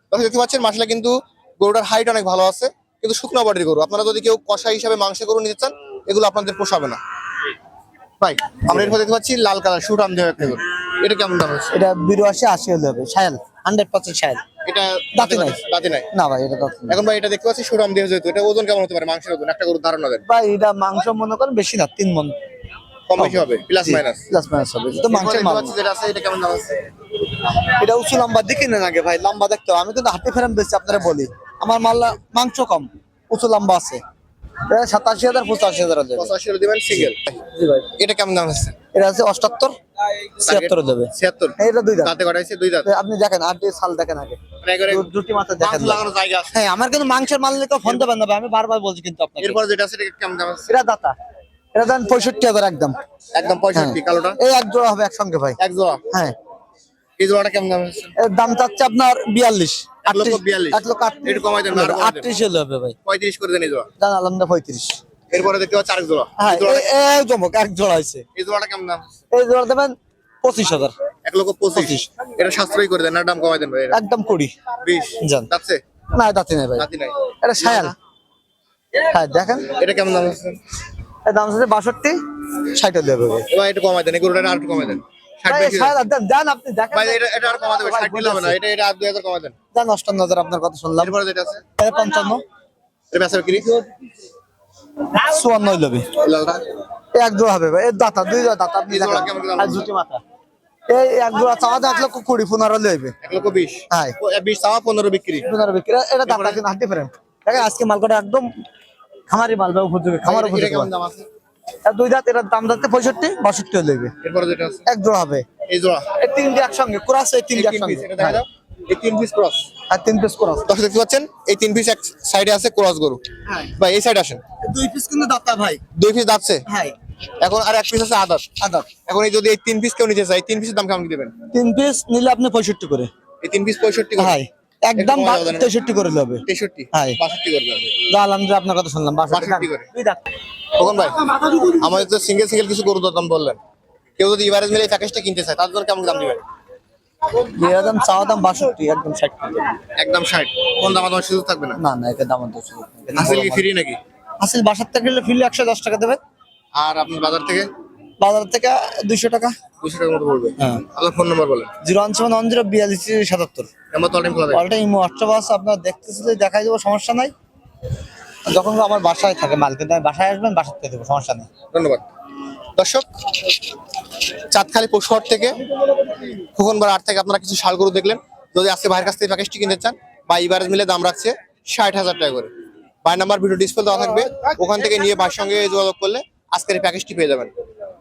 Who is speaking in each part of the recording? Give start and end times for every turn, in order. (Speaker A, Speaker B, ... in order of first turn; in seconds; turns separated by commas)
Speaker A: 0.1-7.0, Speaker A: 8.2-11.7, Speaker B: 11.7-14.4, Speaker A: 14.7-16.1, Speaker B: 15.2-15.6, Speaker B: 16.1-17.0, Speaker A: 16.9-20.2, Speaker B: 20.3-22.4, Speaker A: 23.1-24.2, Speaker B: 23.2-25.8, Speaker A: 25.1-26.8, Speaker B: 27.7-34.0, Speaker B: 34.7-36.3, Speaker A: 36.2-37.4, Speaker B: 37.5-37.9, Speaker A: 38.0-38.8, Speaker B: 38.9-39.8, Speaker B: 40.4-42.1, Speaker A: 40.4-42.9, Speaker B: 42.9-49.6, Speaker A: 44.6-45.1, Speaker A: 45.6-46.6, Speaker A: 49.4-50.7, Speaker B: 50.7-51.1, Speaker B: 51.7-53.0, Speaker A: 53.3-54.4, Speaker B: 53.7-55.6, Speaker A: 55.6-56.0, Speaker A: 57.2-58.1, Speaker B: 58.2-63.0, Speaker A: 60.0-62.3, Speaker A: 63.0-63.9, Speaker B: 64.0-65.0, Speaker A: 65.3-66.9, Speaker B: 66.4-68.2, Speaker A: 68.4-69.0, Speaker B: 69.3-70.9, Speaker A: 71.2-74.0, Speaker B: 71.8-72.1, Speaker B: 73.9-74.5, Speaker A: 74.8-75.8, Speaker B: 75.2-75.5, Speaker B: 76.1-76.9, Speaker A: 76.8-78.0, Speaker B: 77.4-78.0, Speaker B: 79.1-79.7, Speaker A: 79.7-80.6, Speaker B: 81.2-83.5, Speaker A: 83.5-86.0, Speaker B: 85.5-88.6, Speaker A: 86.9-89.5, Speaker B: 89.7-91.1, Speaker A: 91.0-91.6, Speaker B: 91.8-92.4, Speaker A: 93.1-93.7, Speaker B: 93.6-93.9, Speaker B: 95.1-96.1, Speaker A: 96.2-96.7, Speaker B: 97.2-100.2, Speaker A: 98.9-99.8, Speaker B: 100.9-103.2, Speaker A: 103.2-105.5, Speaker B: 103.9-104.2, Speaker B: 105.4-108.5, Speaker A: 106.2-106.6, Speaker B: 109.3-110.9, Speaker A: 110.2-111.3, Speaker B: 111.9-114.1, Speaker A: 114.2-114.8, Speaker B: 114.9-115.5, Speaker A: 115.7-116.1, Speaker B: 116.2-118.4, Speaker A: 117.5-119.7, Speaker B: 119.9-120.7, Speaker A: 120.7-123.2, Speaker A: 123.8-124.4, Speaker B: 124.6-125.8, Speaker A: 126.0-126.6, Speaker B: 126.7-126.9, Speaker A: 127.4-128.5, Speaker B: 128.6-128.9, Speaker A: 129.1-131.3, Speaker B: 131.5-133.1, Speaker A: 133.4-134.4, Speaker B: 134.2-137.2, Speaker A: 135.0-135.8, Speaker A: 136.5-138.0, Speaker B: 138.1-140.2, Speaker A: 139.3-139.9, Speaker A: 140.8-143.6, Speaker A: 144.2-146.4, Speaker B: 147.4-149.8, Speaker A: 150.0-151.8, Speaker B: 151.8-153.6, Speaker A: 153.2-154.0, Speaker B: 154.4-156.2, Speaker A: 156.8-157.7, Speaker B: 158.2-159.6, Speaker A: 159.8-161.7, Speaker B: 160.6-160.8, Speaker B: 161.8-163.7, Speaker A: 163.9-164.6, Speaker B: 164.5-167.3, Speaker B: 168.5-171.5, Speaker A: 171.7-172.1, Speaker A: 172.8-173.1, Speaker A: 174.5-175.6, Speaker A: 176.3-182.5, Speaker A: 183.0-187.5